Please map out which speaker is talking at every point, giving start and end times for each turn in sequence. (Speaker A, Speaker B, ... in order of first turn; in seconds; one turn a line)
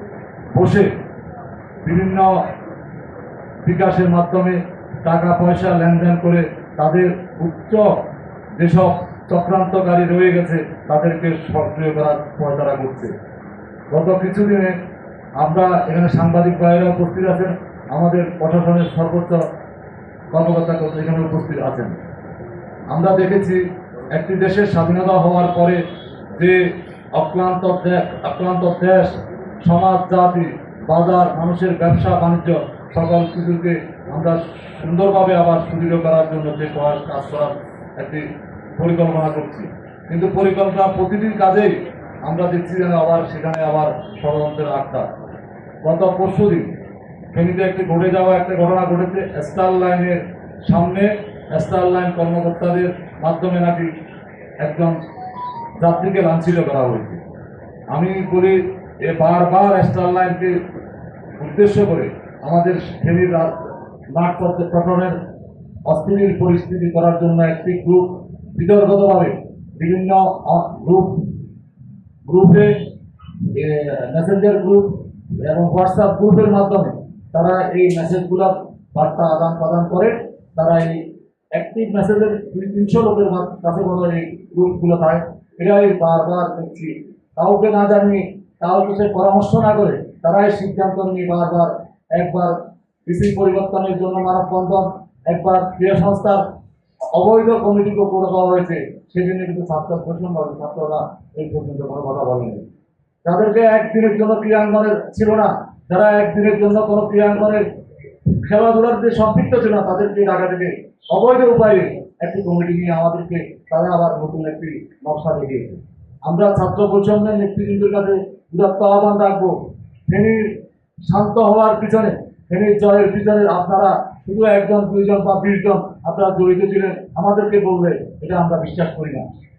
Speaker A: 0.5-0.9
Speaker A: 1.9-2.3
Speaker A: 3.6-7.9
Speaker A: 8.6-13.1
Speaker A: 13.9-14.8
Speaker A: 15.4-19.4
Speaker A: 20.3-22.0
Speaker A: 22.9-25.8
Speaker A: 26.3-26.6
Speaker A: 27.1-45.1
Speaker A: 45.8-46.7
Speaker A: 47.3-53.9
Speaker A: 54.6-55.0
Speaker A: 55.8-57.2
Speaker A: 57.9-60.5
Speaker A: 61.4-63.6
Speaker A: 64.1-65.2
Speaker A: 65.9-71.3
Speaker A: 72.3-72.8
Speaker A: 73.5-96.4
Speaker A: 97.1-102.7
Speaker A: 103.2-107.7
Speaker A: 108.3-129.3